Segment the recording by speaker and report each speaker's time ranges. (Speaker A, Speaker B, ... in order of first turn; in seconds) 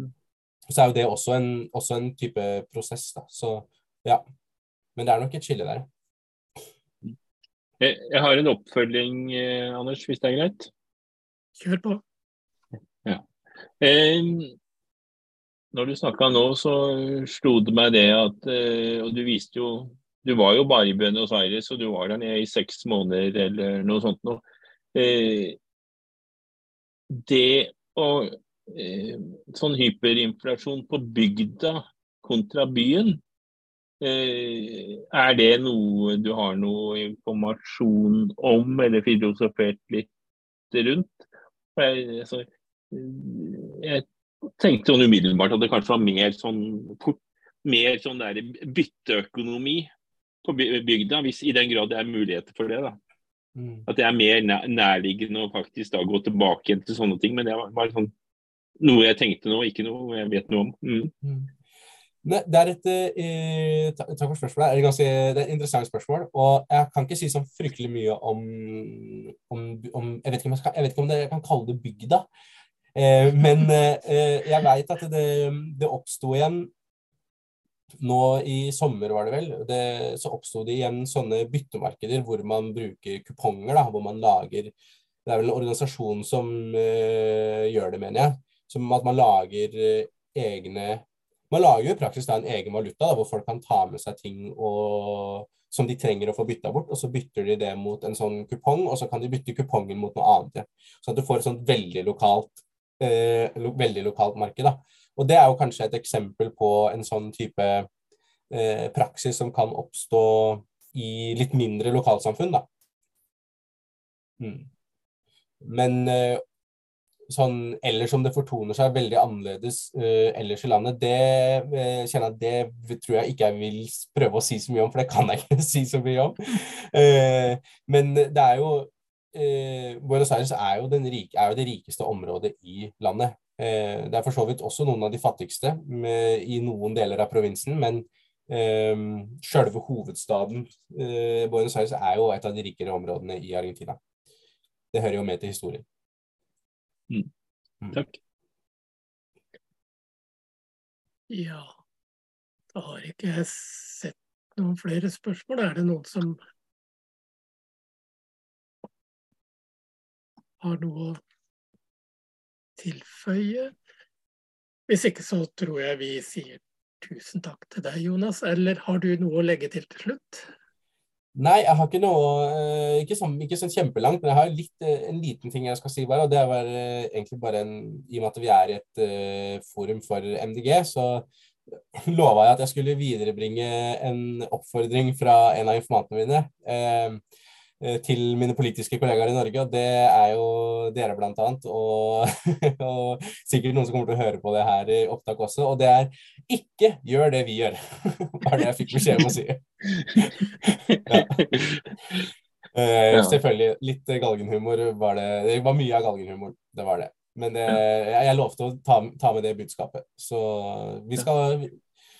Speaker A: 0.7-4.2, 5.0-5.9, 53.5-53.9, 61.2-61.5, 62.2-72.2, 72.9-76.7, 78.0-84.7, 85.2-107.9, 108.5-112.7, 114.4-114.7, 115.6-116.4, 117.3-144.0, 144.9-145.8, 171.3-187.2, 187.8-202.2, 202.7-211.8
Speaker B: 7.8-10.7, 13.8-14.5, 15.7-25.6, 27.1-33.2, 34.0-40.1, 40.7-41.2, 41.8-49.9, 50.4-53.0, 53.9-58.1, 58.8-61.1, 147.9-148.2, 201.1-201.7, 203.1-203.4
Speaker C: 11.6-12.0, 151.3-151.7, 152.7-156.4, 160.6-161.2, 162.8-163.7, 164.9-170.5